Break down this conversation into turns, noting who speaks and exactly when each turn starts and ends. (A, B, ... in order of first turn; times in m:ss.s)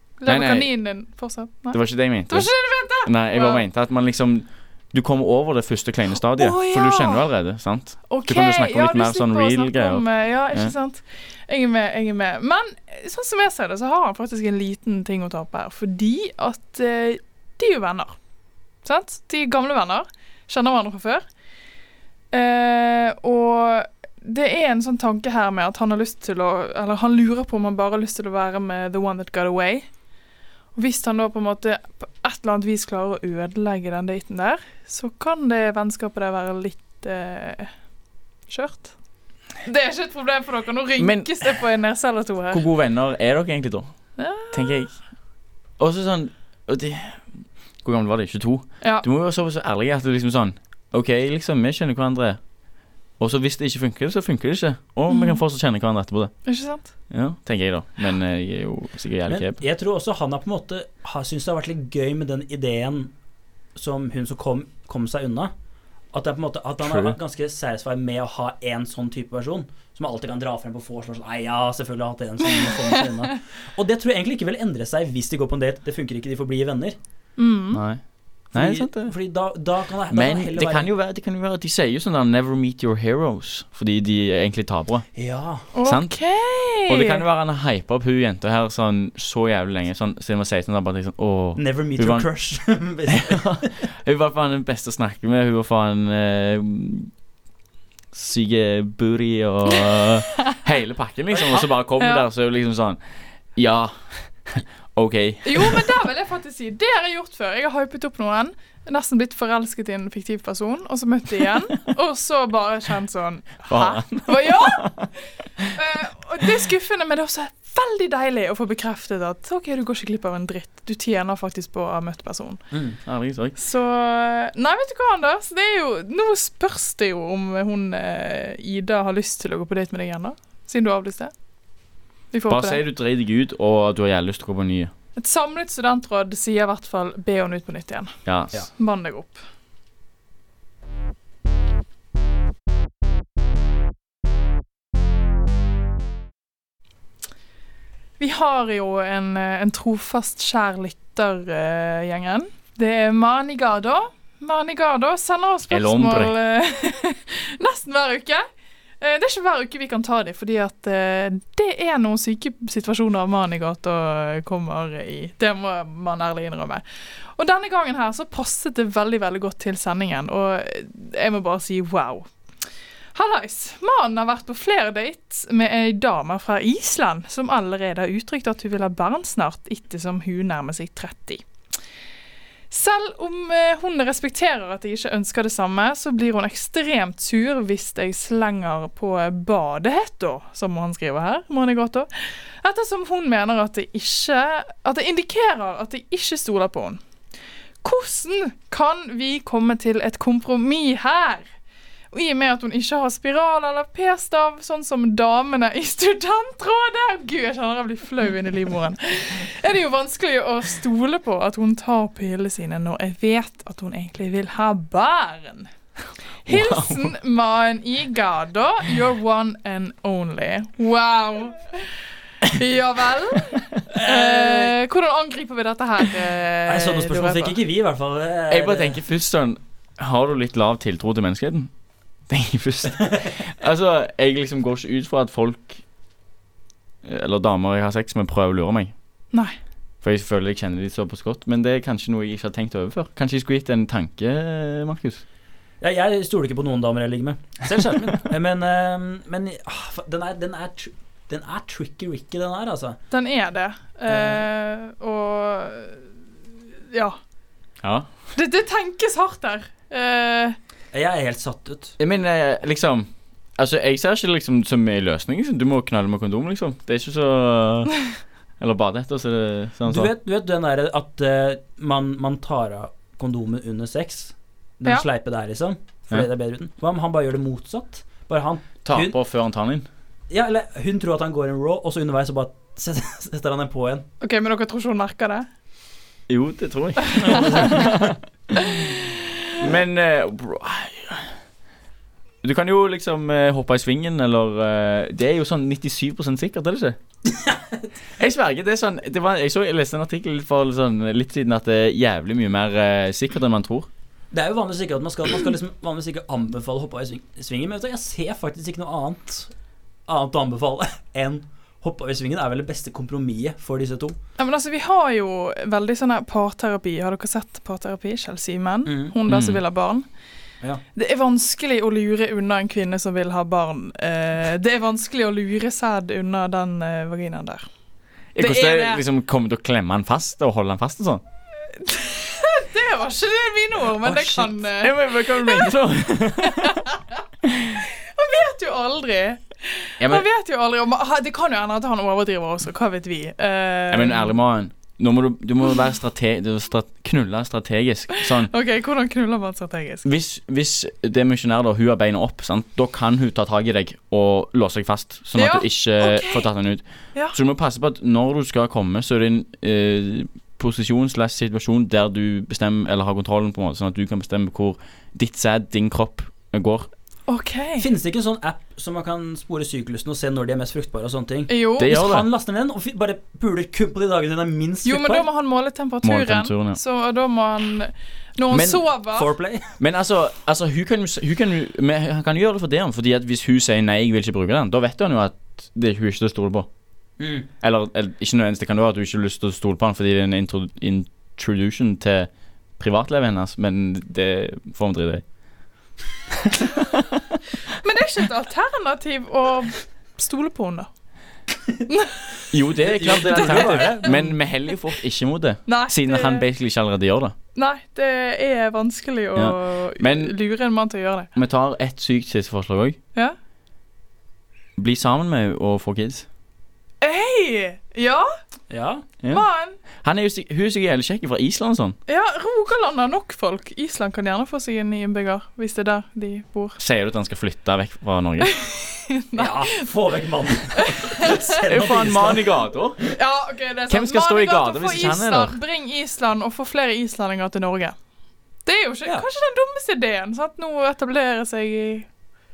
0:00.2-0:03.6 A
0:00.3-0:00.7 B
0:01.7-0:10.7 B
0:06.4-0:07.2 A
0:08.1-0:18.2 A
0:18.8-0:21.2 A
0:22.3-0:29.9 A
0:30.8-0:37.7 A
0:38.5-0:38.9 A
0:39.6-0:42.6 A
0:41.0-0:41.6 B
0:42.5-0:43.9 B
0:44.2-0:44.9 A
0:44.5-0:45.0 B
0:45.8-0:52.4 B
0:53.2-0:56.4 B
0:55.1-0:55.4 A
0:56.5-0:56.9 A
0:57.1-0:59.6 B
0:59.3-1:03.1 C
1:03.8-1:05.5 C
1:06.1-1:17.0 C
1:06.8-1:07.2 B
1:17.4-1:17.8 A
1:17.7-1:18.0 B
1:18.5-1:19.1 B
1:18.5-1:20.9 C
1:20.1-1:25.1 B
1:25.2-1:25.7 C
1:25.7-1:27.2 A
1:25.8-1:26.2 B
1:26.9-1:32.3 B
1:31.6-1:33.8 C
1:33.1-1:37.1 B
1:38.1-1:43.0 B
1:39.7-1:40.6 A
1:41.5-1:42.3 A
1:43.6-1:45.9 B
1:45.4-1:54.9 A
1:53.7-1:55.1 B
1:55.7-2:02.6 A
2:02.7-2:03.0 C
2:03.1-2:03.6 B
2:03.6-2:11.3 A
2:12.3-2:12.8 A
2:12.5-2:14.9 B
2:15.2-2:18.2 A
2:18.3-2:18.6 B
2:18.8-2:19.4 A
2:28.2-2:38.4 A
2:35.7-2:36.4 B
2:39.0-2:46.8 A
2:47.4-2:52.3 A
2:53.1-3:01.4 A
3:02.7-3:17.0 A
3:17.8-3:21.5 A
3:22.1-3:35.7 A
3:36.5-3:41.9 A
3:36.5-3:37.1 B
3:42.5-3:47.6 A
3:43.9-3:44.7 C
3:46.7-3:49.0 C
3:48.5-3:51.7 B
3:52.3-3:55.8 B
3:57.0-3:58.9 B
4:00.0-4:05.2 B
4:05.8-4:13.0 C
4:13.1-4:16.1 A
4:14.1-4:14.4 C
4:16.9-4:17.2 A
4:17.8-4:18.1 B
4:18.4-4:20.6 A
4:20.9-4:22.0 C
4:22.0-4:28.0 B
4:28.6-4:30.1 B
4:29.9-4:39.2 C
4:38.8-4:39.9 B
4:40.3-4:44.1 C
4:44.2-4:45.5 A
4:46.3-4:48.9 B
4:47.1-4:47.5 A
4:47.2-4:48.1 C
4:49.6-4:51.3 B
4:52.4-4:57.0 B
4:57.3-4:57.9 C
4:58.2-5:03.9 B
5:04.3-5:09.5 C
5:10.1-5:14.2 C
5:14.4-5:20.1 A
5:18.9-5:19.2 C
5:19.3-5:19.6 B
5:20.9-5:27.7 A
5:28.4-5:29.0 A
5:28.4-5:31.2 B
5:31.8-5:35.7 A
5:34.0-5:34.6 C
5:34.8-5:36.8 B
5:36.4-5:37.2 A
5:38.0-5:44.3 A
5:43.9-5:48.5 B
5:48.2-5:50.0 A
5:50.0-6:06.9 B
5:55.4-5:56.5 A
6:07.3-6:07.9 A
6:07.8-6:15.3 C
6:11.5-6:11.9 A
6:11.8-6:12.3 B
6:14.8-6:19.3 A
6:16.0-6:16.8 B
6:18.5-6:18.8 B
6:19.1-6:19.8 C
6:19.8-6:26.7 B
6:27.2-6:27.5 C
6:27.6-6:35.2 B
6:37.7-6:40.9 A
6:41.9-6:42.3 A
6:42.5-6:47.4 B
6:42.8-6:44.4 C
6:43.3-6:44.1 A
6:45.7-6:46.5 A
6:47.6-6:51.3 A
6:49.4-6:50.3 B
6:51.4-6:53.0 B
6:54.8-6:56.3 B
6:57.0-6:58.3 A
6:58.7-6:59.1 C
6:59.3-6:59.8 A
7:00.0-7:02.0 B
7:02.1-7:06.8 A
7:06.8-7:08.6 B
7:08.5-7:09.9 A
7:09.4-7:12.5 C
7:10.8-7:11.4 A
7:11.6-7:13.0 B
7:13.2-7:18.0 A
7:13.9-7:15.6 B
7:18.7-7:22.1 A